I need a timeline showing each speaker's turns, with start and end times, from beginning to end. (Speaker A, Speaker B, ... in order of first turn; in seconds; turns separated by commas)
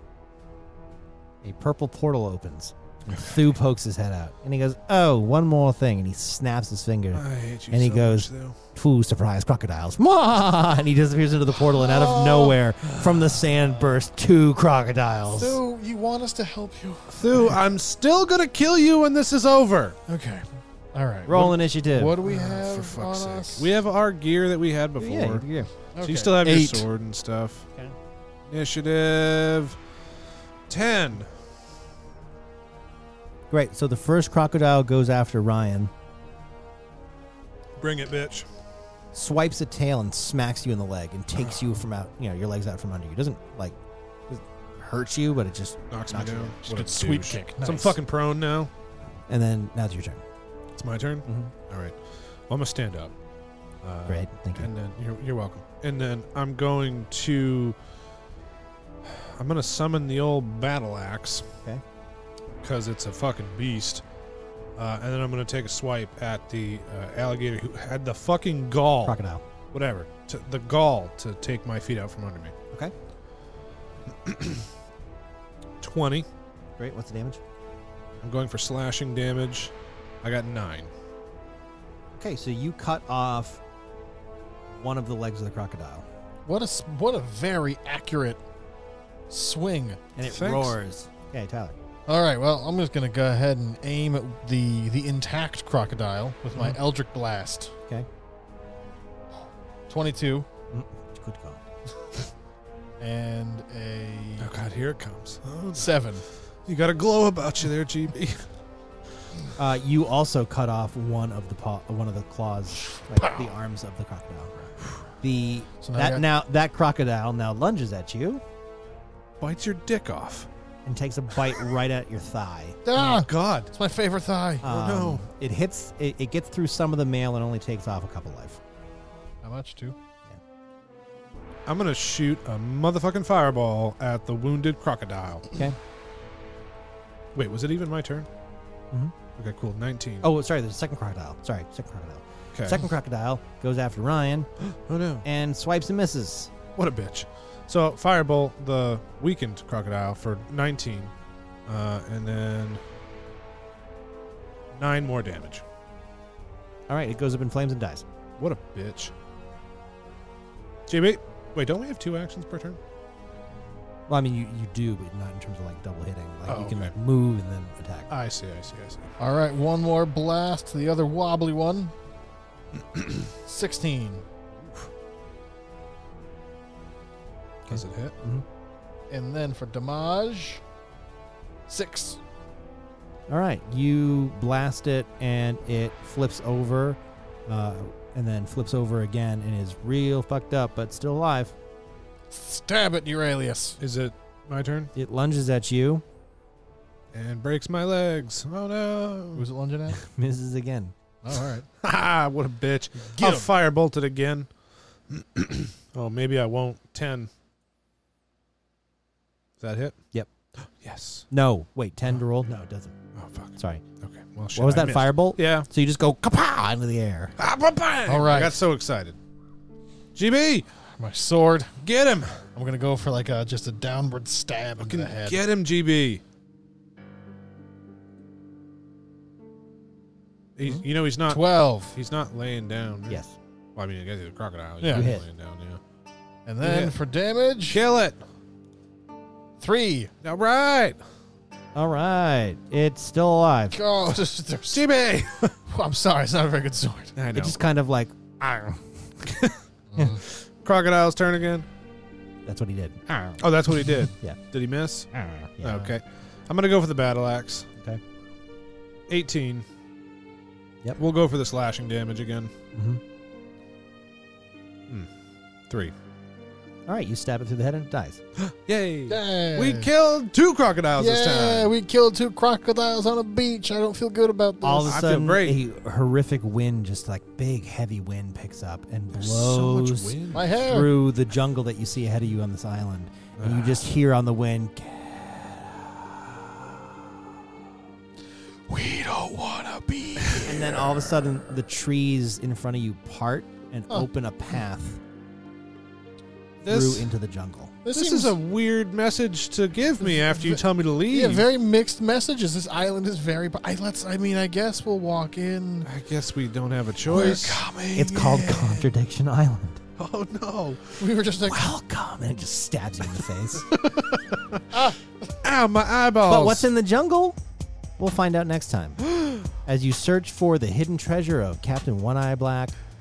Speaker A: 1.4-15.6, Speaker B: 7.1-8.6, Speaker C: 11.6-12.6, Speaker C: 15.3-17.6, Speaker B: 17.1-20.0, Speaker C: 20.1-23.7, Speaker A: 21.2-22.1, Speaker B: 22.2-25.5, Speaker A: 25.0-25.7, Speaker C: 25.9-26.8, Speaker B: 26.0-27.7, Speaker B: 28.5-29.8, Speaker B: 30.7-31.3, Speaker A: 33.5-35.9, Speaker B: 37.8-38.5, Speaker A: 39.1-43.8, Speaker A: 44.3-46.6, Speaker B: 45.9-48.7, Speaker C: 46.7-48.0, Speaker A: 49.3-50.2, Speaker B: 50.7-53.1, Speaker A: 51.2-51.5, Speaker B: 53.8-57.8, Speaker A: 54.1-54.7, Speaker B: 59.0-61.5, Speaker B: 62.6-64.0, Speaker B: 64.8-69.2, Speaker A: 69.0-69.4, Speaker B: 69.7-72.5, Speaker B: 74.2-74.7, Speaker B: 75.8-76.3, Speaker A: 76.8-77.4, Speaker B: 78.2-80.9, Speaker A: 82.2-83.6, Speaker A: 84.7-86.1, Speaker C: 86.5-88.4, Speaker C: 89.3-90.0, Speaker A: 90.2-91.8, Speaker B: 90.2-90.8, Speaker C: 92.1-97.7, Speaker C: 99.9-100.5, Speaker A: 100.7-101.6, Speaker C: 103.0-104.5, Speaker B: 104.4-105.9, Speaker C: 105.7-106.2, Speaker B: 106.7-108.5, Speaker A: 109.5-118.4, Speaker C: 115.8-116.2, Speaker B: 119.4-120.5, Speaker A: 120.8-122.8, Speaker C: 122.8-124.7, Speaker B: 122.9-123.7, Speaker A: 124.6-128.6, Speaker B: 124.6-125.3, Speaker C: 129.4-129.9, Speaker B: 131.7-135.5, Speaker B: 137.3-138.3, Speaker B: 139.3-140.3, Speaker A: 140.2-144.5, Speaker B: 142.5-142.8, Speaker B: 144.7-145.2, Speaker A: 145.2-146.5, Speaker B: 146.8-151.1, Speaker B: 151.7-152.8, Speaker B: 154.7-155.6, Speaker A: 156.9-158.1, Speaker B: 158.4-159.1, Speaker B: 160.9-162.8, Speaker A: 164.1-168.1, Speaker B: 166.5-166.9, Speaker B: 168.1-169.1, Speaker C: 169.2-171.9, Speaker C: 173.4-174.2, Speaker B: 177.7-178.1, Speaker A: 177.7-178.4, Speaker C: 179.1-180.6, Speaker C: 181.7-182.2, Speaker A: 183.3-191.5, Speaker C: 192.3-193.8, Speaker B: 193.8-194.9, Speaker A: 194.9-196.0, Speaker B: 197.1-199.5, Speaker C: 199.3-200.0, Speaker A: 200.0-200.9, Speaker C: 201.2-201.7, Speaker B: 201.8-204.5, Speaker C: 203.1-203.5, Speaker B: 205.1-207.3, Speaker B: 209.6-210.0, Speaker B: 210.8-211.3, Speaker A: 211.3-212.9, Speaker B: 213.1-215.7, Speaker A: 213.6-213.8, Speaker A: 214.5-217.3, Speaker B: 217.4-219.2, Speaker C: 218.1-218.6, Speaker B: 220.1-220.7, Speaker C: 221.0-221.8, Speaker B: 221.8-222.4, Speaker C: 222.5-225.4, Speaker B: 224.8-226.2, Speaker B: 230.6-233.2, Speaker C: 231.3-231.9, Speaker A: 233.1-233.4, Speaker B: 233.8-235.8, Speaker C: 234.8-235.1, Speaker A: 234.9-235.2, Speaker C: 236.4-237.8, Speaker B: 236.6-236.9, Speaker B: 237.7-238.2, Speaker C: 239.6-240.1, Speaker B: 240.2-241.0, Speaker A: 241.7-243.8, Speaker C: 243.7-244.8, Speaker B: 244.7-245.6, Speaker C: 245.7-247.1, Speaker B: 247.2-247.6, Speaker A: 247.3-250.2, Speaker B: 249.2-249.5, Speaker C: 249.9-250.2, Speaker B: 250.2-251.7, Speaker A: 252.4-254.4, Speaker B: 253.4-255.1, Speaker A: 255.1-255.9, Speaker B: 255.6-257.7, Speaker B: 259.1-259.6, Speaker B: 260.9-262.5, Speaker A: 262.7-263.0, Speaker B: 265.7-265.9, Speaker A: 266.9-268.2, Speaker B: 268.4-271.7, Speaker C: 269.1-269.9, Speaker C: 271.0-275.0, Speaker A: 274.6-286.0, Speaker B: 274.8-275.6, Speaker B: 279.1-280.5, Speaker C: 280.3-280.9, Speaker B: 283.4-283.9, Speaker C: 288.7-290.8, Speaker A: 290.4-295.0, Speaker B: 296.6-297.1, Speaker A: 296.6-297.8, Speaker C: 297.8-298.3, Speaker B: 297.9-301.4, Speaker C: 300.1-305.9, Speaker B: 305.8-307.6, Speaker C: 307.1-308.9, Speaker A: 307.9-309.8, Speaker B: 310.0-310.9, Speaker C: 311.0-311.7, Speaker A: 311.4-313.7, Speaker B: 314.1-314.8, Speaker C: 314.7-315.0, Speaker B: 315.4-316.7, Speaker A: 316.2-317.4, Speaker A: 318.0-322.7